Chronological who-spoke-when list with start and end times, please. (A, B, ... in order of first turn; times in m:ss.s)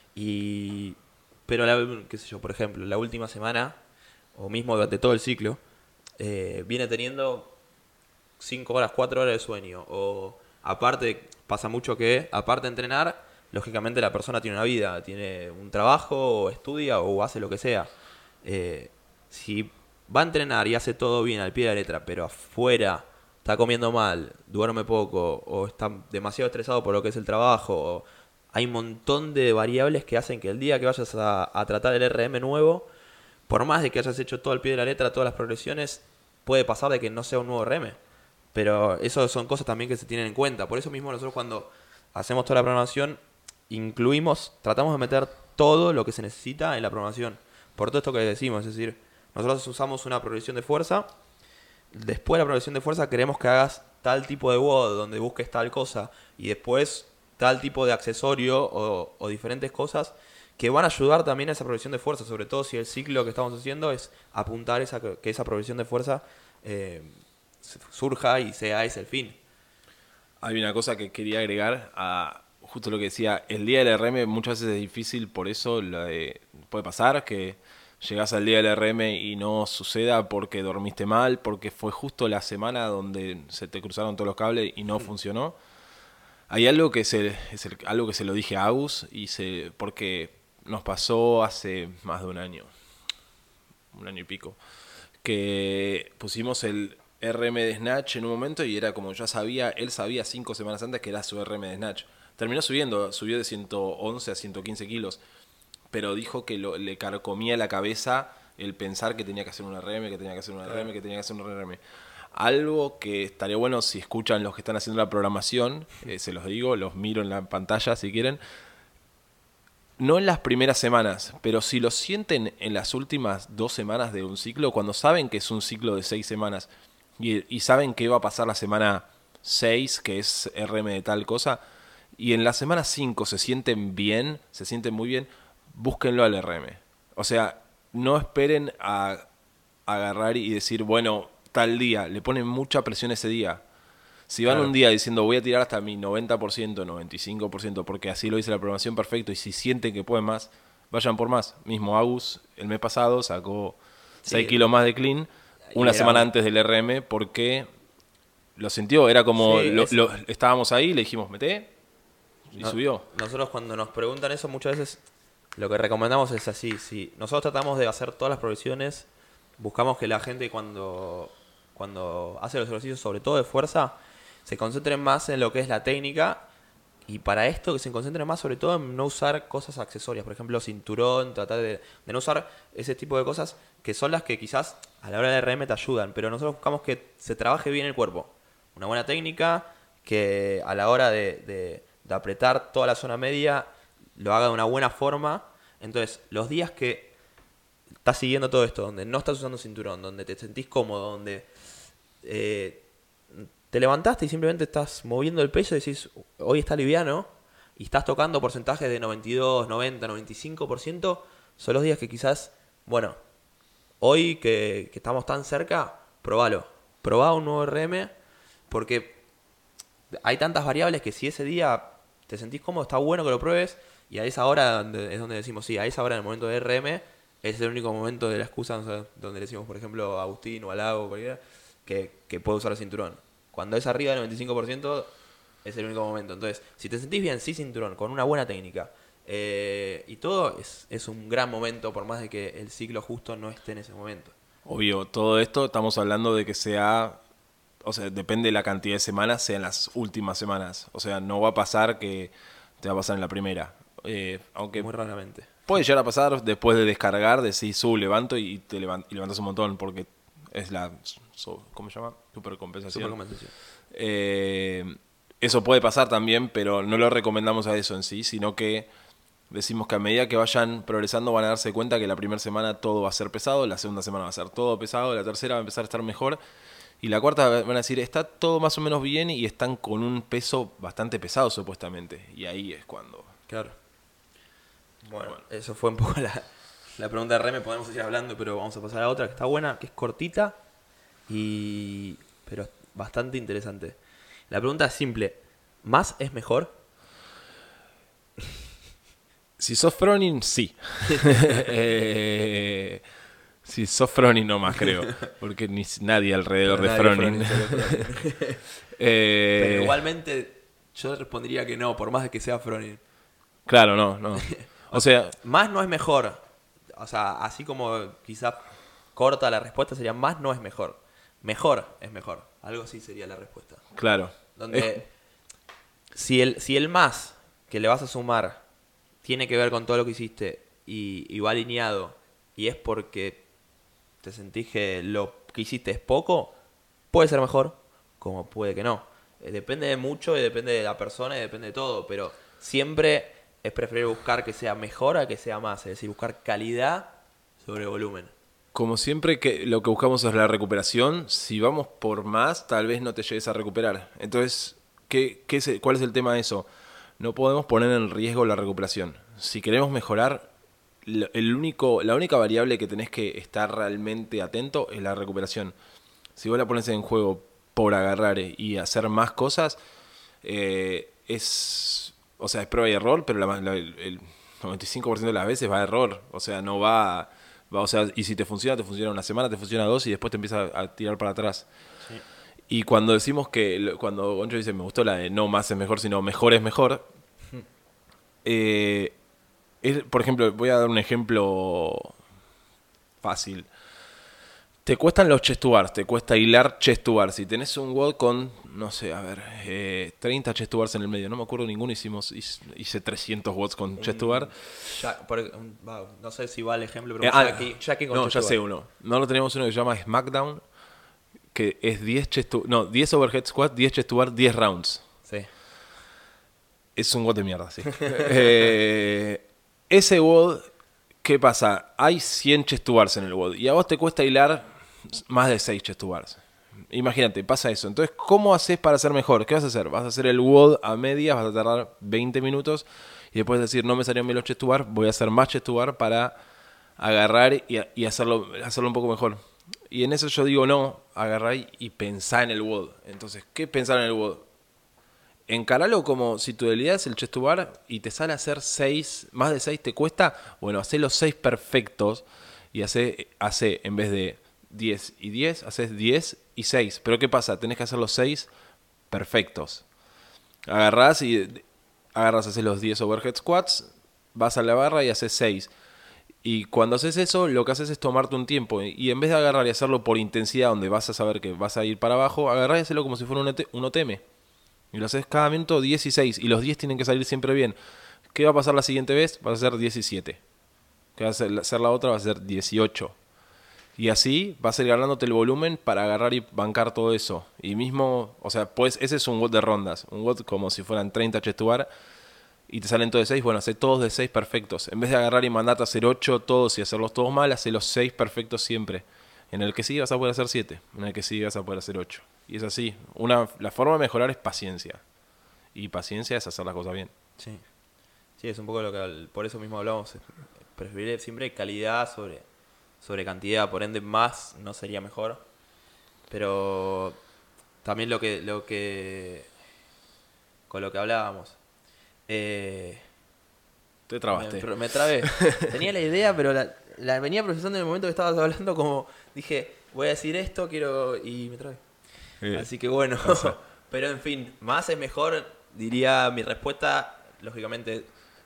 0:00.2-0:03.8 A
0:04.4-0:05.6 A
0:06.2-0:07.6 A
0:08.4-0:17.9 A
0:18.4-0:32.9 A
0:33.5-0:38.0 A
0:38.5-0:51.1 A
0:51.9-1:09.4 A
1:10.4-1:25.6 B
1:26.5-1:32.7 B
1:33.9-1:34.6 B
1:35.2-1:45.2 B
1:45.9-1:51.8 B
1:52.3-1:58.4 B
2:00.0-2:11.6 B
2:12.2-2:19.3 B
2:19.9-2:23.6 B
2:24.3-2:37.7 B
2:24.5-2:24.7 A
2:34.2-2:34.6 A
2:35.7-2:36.3 A
2:38.6-2:41.7 B
2:39.4-2:40.0 A
2:42.5-2:43.1 B
2:42.6-2:45.0 A
2:45.6-2:49.1 A
2:49.6-2:56.5 A
2:57.1-3:17.1 A
3:18.0-3:21.5 A
3:22.2-3:33.2 A
3:34.0-3:38.1 A
3:38.7-3:39.2 A
3:40.1-3:55.1 A
3:55.6-4:04.3 A
4:04.7-4:07.2 B
4:07.8-4:14.9 B
4:14.8-4:15.5 A
4:15.7-4:23.2 B
4:22.9-4:23.5 A
4:23.9-4:28.9 B
4:29.5-4:36.4 B
4:37.0-4:43.3 B
4:43.5-4:43.8 A
4:45.0-4:50.6 A
4:51.3-4:54.0 A
4:54.5-4:56.7 A
4:59.6-5:03.0 B
5:01.1-5:01.4 A
5:03.6-5:08.0 B
5:06.6-5:08.6 A
5:08.9-5:10.0 B
5:09.6-5:13.0 A
5:13.7-5:15.4 B
5:14.4-5:16.4 A
5:17.0-5:23.8 A
5:24.0-5:24.9 B
5:24.6-5:25.1 A
5:26.2-5:28.6 A
5:29.2-5:33.4 A
5:34.2-5:36.5 A
5:37.1-5:48.3 A
5:48.7-5:56.7 B
5:57.2-6:00.5 B
6:01.0-6:05.7 B
6:06.4-6:09.8 B
6:10.4-6:21.7 B
6:22.7-6:27.0 B
6:28.4-6:29.2 B
6:29.8-6:32.2 B
6:33.2-6:33.7 B
6:34.8-6:44.5 B
6:44.0-6:48.6 A
6:47.2-6:50.6 B
6:51.5-6:55.0 B
6:57.0-7:00.7 B
7:01.2-7:16.3 B
7:17.0-7:24.5 B
7:25.5-7:38.5 B
7:39.1-7:39.8 B
7:40.7-7:45.7 B
7:46.4-7:54.2 B
7:54.9-7:57.8 B
7:58.3-8:00.4 B
8:01.2-8:03.2 B
8:04.0-8:11.9 B
8:12.7-8:25.0 B
8:25.7-8:27.1 B
8:27.4-8:27.6 A
8:28.4-8:32.5 A
8:33.0-8:35.4 A
8:36.3-8:37.2 A
8:37.8-8:39.5 A
8:40.7-8:41.6 A
8:42.3-8:43.1 A
8:44.1-8:44.7 B
8:44.3-8:51.8 A
8:45.2-8:45.6 B
8:52.4-8:52.7 B
8:52.5-8:58.1 A
8:53.2-8:53.6 B